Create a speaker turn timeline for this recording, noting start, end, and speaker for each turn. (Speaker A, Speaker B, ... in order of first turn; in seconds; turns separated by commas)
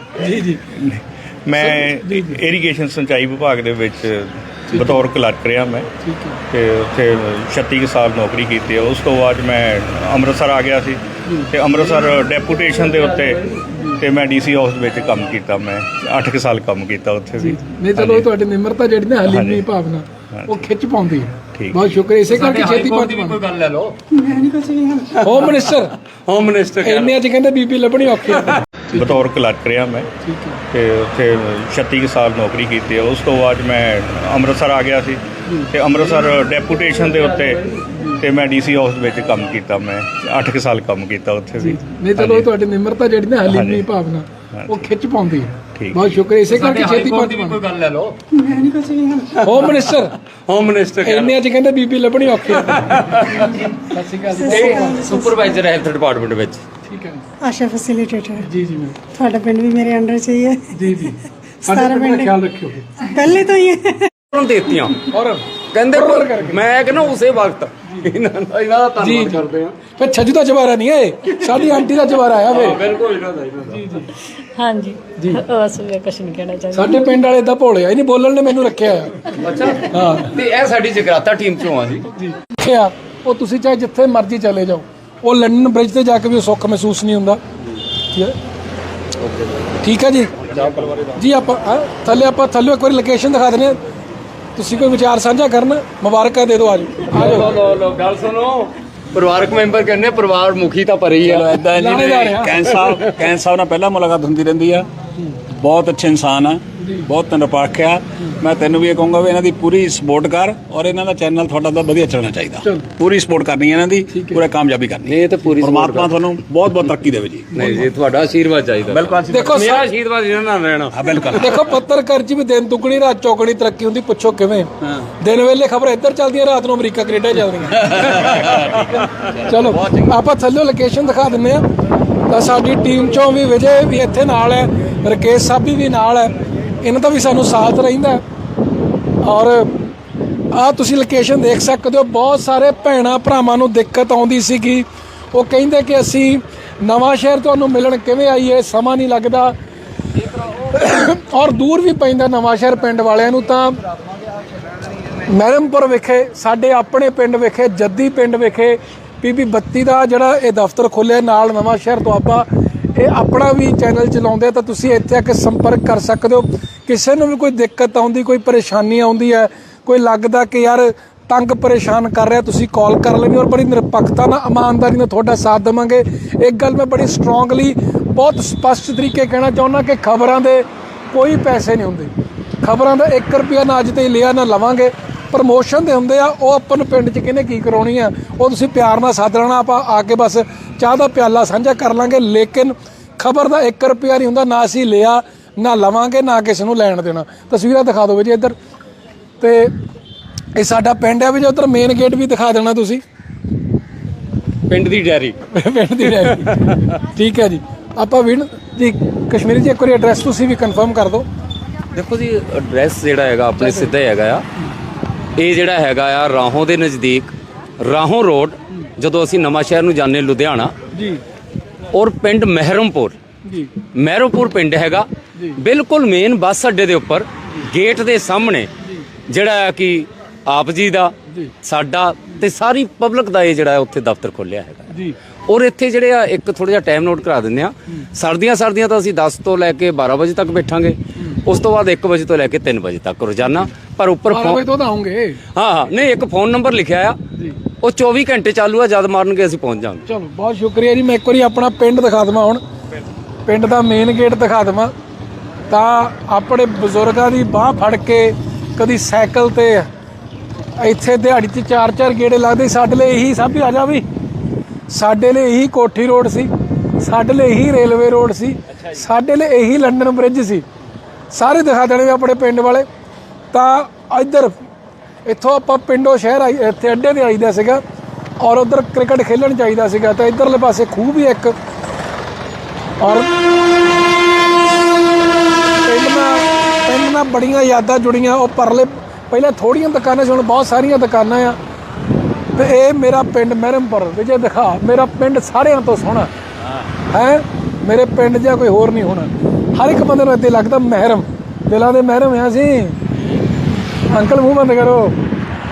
Speaker A: 0.1-0.6, Speaker B: 0.7-5.9, Speaker A: 1.6-2.4, Speaker A: 4.7-5.0, Speaker A: 6.0-6.4, Speaker B: 6.5-13.4, Speaker A: 11.2-11.5, Speaker C: 13.3-13.6, Speaker A: 13.7-14.0, Speaker B: 14.0-18.3, Speaker A: 17.4-23.4, Speaker B: 19.3-19.6, Speaker B: 20.3-20.6, Speaker B: 21.5-21.8, Speaker C: 22.2-25.7, Speaker D: 24.6-25.0, Speaker A: 25.2-25.9, Speaker C: 26.2-27.1, Speaker A: 26.8-29.2, Speaker B: 28.9-30.1, Speaker A: 30.2-30.6, Speaker B: 30.7-42.5, Speaker A: 37.9-38.2, Speaker A: 41.6-47.6, Speaker B: 43.5-43.9, Speaker B: 44.5-44.8, Speaker B: 45.7-46.2, Speaker C: 46.5-48.5, Speaker D: 48.4-49.3, Speaker C: 49.2-50.0, Speaker A: 49.4-50.1, Speaker C: 50.5-51.4, Speaker A: 51.0-55.1, Speaker C: 52.6-53.7, Speaker D: 54.3-55.5, Speaker C: 54.5-56.6, Speaker A: 56.8-57.3, Speaker D: 57.4-58.5, Speaker A: 58.4-59.1, Speaker D: 59.0-60.8, Speaker A: 60.7-63.1, Speaker D: 61.6-62.4, Speaker D: 63.0-64.1, Speaker C: 64.3-65.1, Speaker A: 65.1-66.6, Speaker C: 65.7-69.8, Speaker A: 69.0-69.4, Speaker A: 70.0-72.8, Speaker C: 72.5-74.0, Speaker A: 73.7-74.1, Speaker D: 74.5-77.1, Speaker A: 76.7-79.2, Speaker C: 79.4-82.0, Speaker A: 79.9-80.3, Speaker A: 82.1-87.4, Speaker C: 89.2-89.7, Speaker A: 89.8-90.4, Speaker C: 90.4-91.2, Speaker A: 91.2-93.8, Speaker A: 94.5-97.5, Speaker C: 97.0-103.1, Speaker E: 101.2-104.9, Speaker A: 101.7-102.6, Speaker E: 105.5-117.8, Speaker A: 106.8-107.1, Speaker A: 112.6-112.9, Speaker A: 114.1-114.4, Speaker C: 115.0-116.2, Speaker A: 117.5-117.8, Speaker C: 117.5-121.4, Speaker E: 118.8-119.8, Speaker A: 119.3-119.8, Speaker E: 120.9-121.6, Speaker A: 121.3-127.9, Speaker E: 127.9-128.8, Speaker C: 128.1-129.2, Speaker A: 129.3-131.7, Speaker C: 129.7-130.1, Speaker A: 132.3-138.2, Speaker A: 139.2-139.9, Speaker A: 140.5-149.5, Speaker A: 150.6-153.8, Speaker A: 155.3-198.5, Speaker A: 199.4-199.7, Speaker A: 200.6-203.0, Speaker C: 204.7-205.4, Speaker A: 205.5-211.2, Speaker C: 206.0-206.8, Speaker C: 211.9-214.4, Speaker A: 213.6-213.9, Speaker C: 215.4-220.7, Speaker A: 220.9-221.2, Speaker C: 221.9-223.2, Speaker A: 223.4-223.7, Speaker C: 223.9-228.7, Speaker C: 229.3-234.9, Speaker C: 235.5-244.7, Speaker A: 244.3-245.4, Speaker C: 245.5-247.2, Speaker C: 247.8-250.0, Speaker A: 250.1-252.6, Speaker A: 253.4-254.9, Speaker A: 255.7-259.9, Speaker A: 260.8-264.0, Speaker A: 264.9-270.6, Speaker A: 271.3-272.9, Speaker A: 273.5-274.5, Speaker A: 275.2-277.8, Speaker A: 278.4-281.5, Speaker A: 283.0-283.3, Speaker A: 285.8-291.6, Speaker A: 292.6-296.3, Speaker A: 297.1-303.0, Speaker A: 304.1-305.1